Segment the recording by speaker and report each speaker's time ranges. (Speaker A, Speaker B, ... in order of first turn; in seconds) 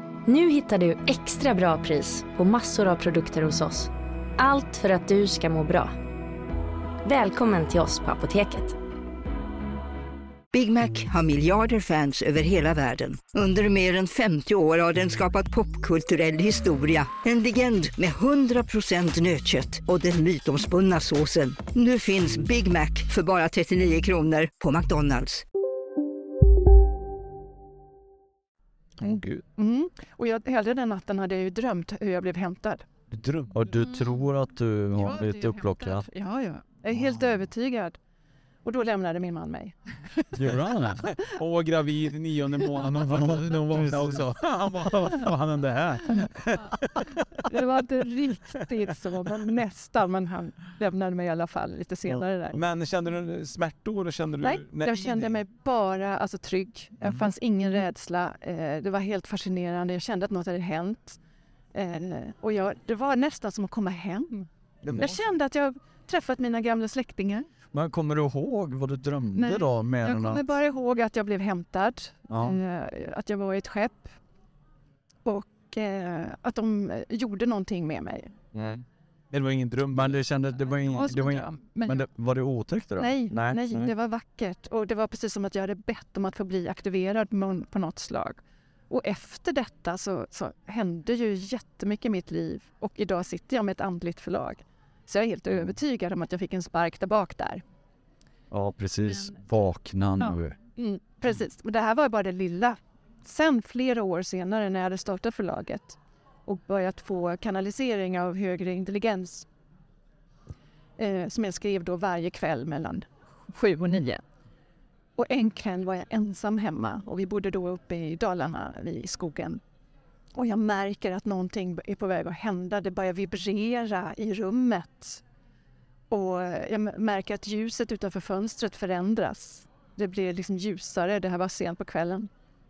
Speaker A: 0.2-5.9, 7.0-8.7
Speaker B: 10.5-25.4
Speaker C: 29.0-29.4, 33.1-33.6, 40.4-47.4, 52.5-55.3, 64.8-65.1, 79.3-80.2, 83.3-83.6
Speaker D: 29.6-32.9, 34.9-38.0, 38.6-39.8, 47.5-52.6, 54.4-61.2, 61.7-67.5, 69.3-74.2, 75.2-78.3, 80.8-82.0, 83.0-97.6, 100.2-109.5, 111.0-114.2, 115.2-119.6, 120.3-125.2, 126.1-132.3
Speaker E: 33.5-36.1, 40.3-41.0, 43.3-44.2, 64.8-65.1, 67.7-70.5, 72.3-72.6, 78.5-78.8, 79.9-83.1, 98.5-100.5